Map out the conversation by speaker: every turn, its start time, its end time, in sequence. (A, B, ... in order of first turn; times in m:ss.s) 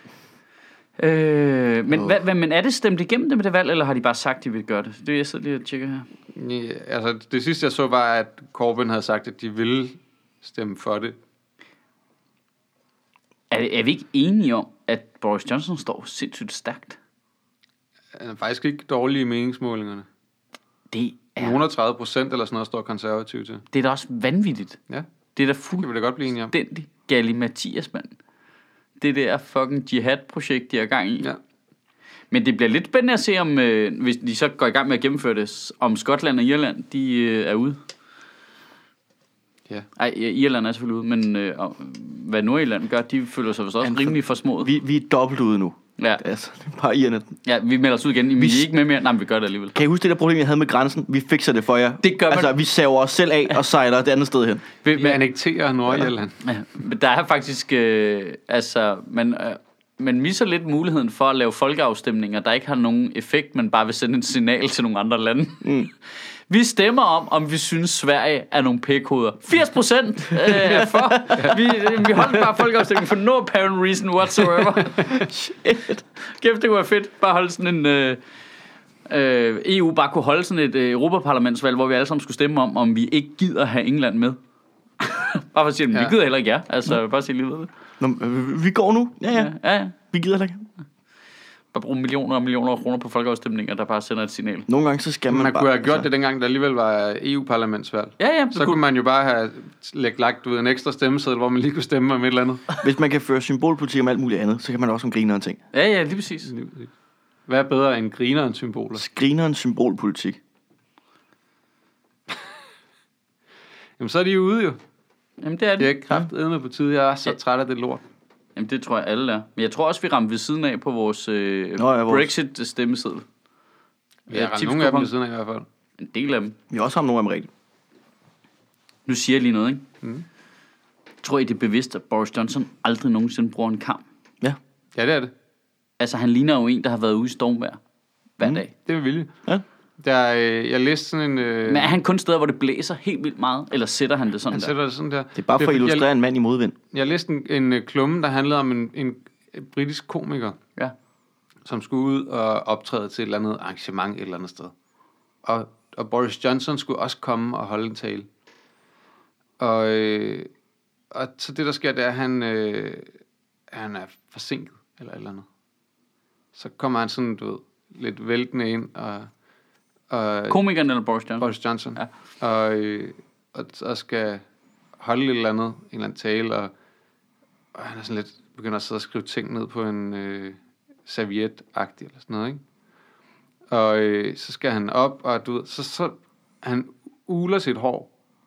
0:01.0-0:06.0 A
0:06.3-0:11.2 B
0:13.5-0:17.0 A
0:18.1-0:20.1 B
0:20.9-0:21.6 A
0:21.4-0:23.6 B
0:23.7-0:24.8 A
0:25.4-0:25.9 A
0:25.8-0:26.5 B
0:26.5-0:28.1 A
0:29.0-0:31.3 A
0:32.3-0:37.8 A
0:40.0-0:44.7 A
0:43.8-0:47.3 C
0:47.4-0:49.8 A
0:48.4-0:48.7 C
0:49.7-0:54.6 C
0:52.0-0:52.5 A
0:54.8-0:56.4 B
0:56.4-1:05.8 A
1:05.6-1:05.9 C
1:06.5-1:15.2 A
1:10.8-1:11.4 C
1:15.0-1:16.0 C
1:16.2-1:18.2 A
1:19.1-1:24.4 A
1:25.0-1:27.7 A
1:28.0-1:30.7 C
1:29.3-1:30.0 A
1:31.7-1:34.7 A
1:34.7-1:36.0 C
1:35.3-1:42.7 B
1:38.2-1:38.8 A
1:42.8-1:45.6 C
1:45.7-1:46.5 A
1:46.5-1:46.9 B
1:47.5-1:49.0 B
1:49.0-1:50.4 C
1:54.0-1:54.8 B
1:55.4-1:55.9 A
1:55.8-1:58.0 B
1:58.6-2:03.2 A
2:01.8-2:02.3 C
2:04.3-2:05.6 B
2:04.3-2:05.1 A
2:06.0-2:06.5 A
2:06.7-2:07.5 C
2:09.0-2:09.8 A
2:11.2-2:14.0 A
2:14.9-2:15.3 B
2:16.0-2:17.8 A
2:18.4-2:18.7 A
2:18.8-2:19.3 B
2:20.0-2:21.9 B
2:21.6-2:24.7 A
2:24.5-2:26.1 B
2:25.4-2:26.7 C
2:26.9-2:30.6 B
2:31.6-2:34.7 B
2:35.4-2:38.3 B
2:39.6-2:40.5 B
2:41.1-2:43.1 B
2:43.7-2:45.4 B
2:46.5-2:49.3 B
2:50.1-2:50.6 B
2:50.5-2:52.1 A
2:51.4-2:54.4 B
2:55.0-2:56.7 B
2:57.7-3:02.6 B
3:03.7-3:08.1 B